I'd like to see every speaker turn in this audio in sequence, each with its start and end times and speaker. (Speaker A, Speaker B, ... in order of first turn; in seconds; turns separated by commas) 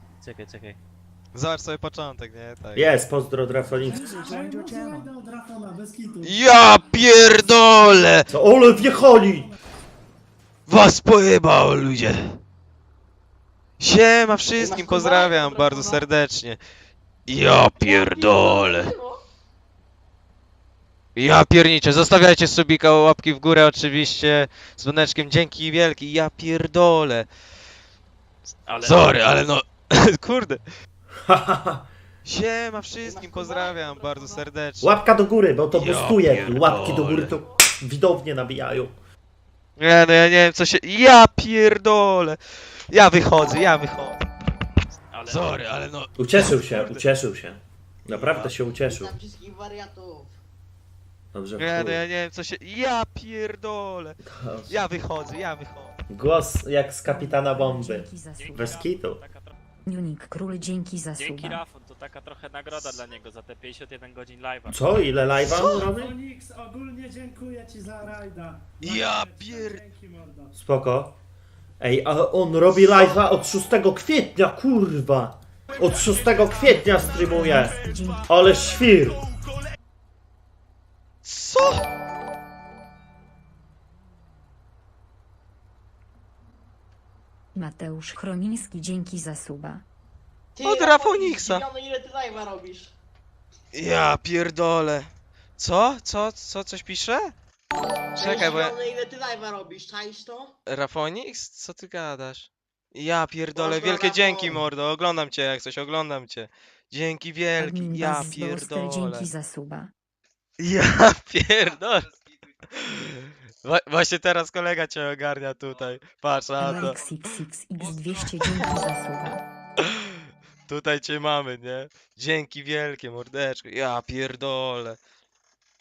Speaker A: 0.2-0.8, Speaker B: 1.3-2.9, Speaker C: 2.7-4.2, Speaker D: 3.8-6.5, Speaker A: 4.6-5.0, Speaker B: 6.2-8.3, Speaker C: 8.3-9.5, Speaker D: 8.3-9.6, Speaker B: 10.7-12.2, Speaker B: 13.8-16.6, Speaker E: 14.6-16.1, Speaker B: 17.3-18.9, Speaker E: 17.8-19.2, Speaker B: 21.1-27.3, Speaker A: 28.6-29.0, Speaker B: 28.8-30.6, Speaker C: 31.3-31.9, Speaker B: 32.2-34.9, Speaker E: 33.0-34.5, Speaker C: 34.8-38.9, Speaker B: 35.7-37.4, Speaker B: 39.8-42.4, Speaker B: 42.9-44.2, Speaker A: 45.1-45.4, Speaker B: 45.2-47.0, Speaker C: 46.1-49.1, Speaker B: 48.1-48.5, Speaker E: 48.9-50.3, Speaker C: 51.3-52.0, Speaker B: 51.6-54.2, Speaker C: 54.2-54.8, Speaker B: 54.7-55.9, Speaker C: 56.1-59.2, Speaker F: 57.0-58.8, Speaker A: 58.4-59.5, Speaker F: 59.8-61.6, Speaker A: 61.2-64.8, Speaker C: 64.7-66.1, Speaker B: 65.5-65.9, Speaker D: 65.7-70.5, Speaker B: 68.8-69.8, Speaker C: 70.5-71.2, Speaker C: 71.8-79.3, Speaker F: 76.5-78.3, Speaker B: 81.2-81.8, Speaker F: 87.5-89.8, Speaker E: 90.5-92.9, Speaker B: 90.6-91.6, Speaker B: 93.7-97.3, Speaker E: 98.1-100.5, Speaker B: 98.2-98.8, Speaker B: 100.7-109.3, Speaker E: 103.5-104.6, Speaker F: 107.6-109.9, Speaker B: 110.6-112.2, Speaker B: 112.8-117.0, Speaker F: 116.6-119.4, Speaker B: 117.8-118.7, Speaker B: 119.8-120.1, Speaker B: 120.7-125.0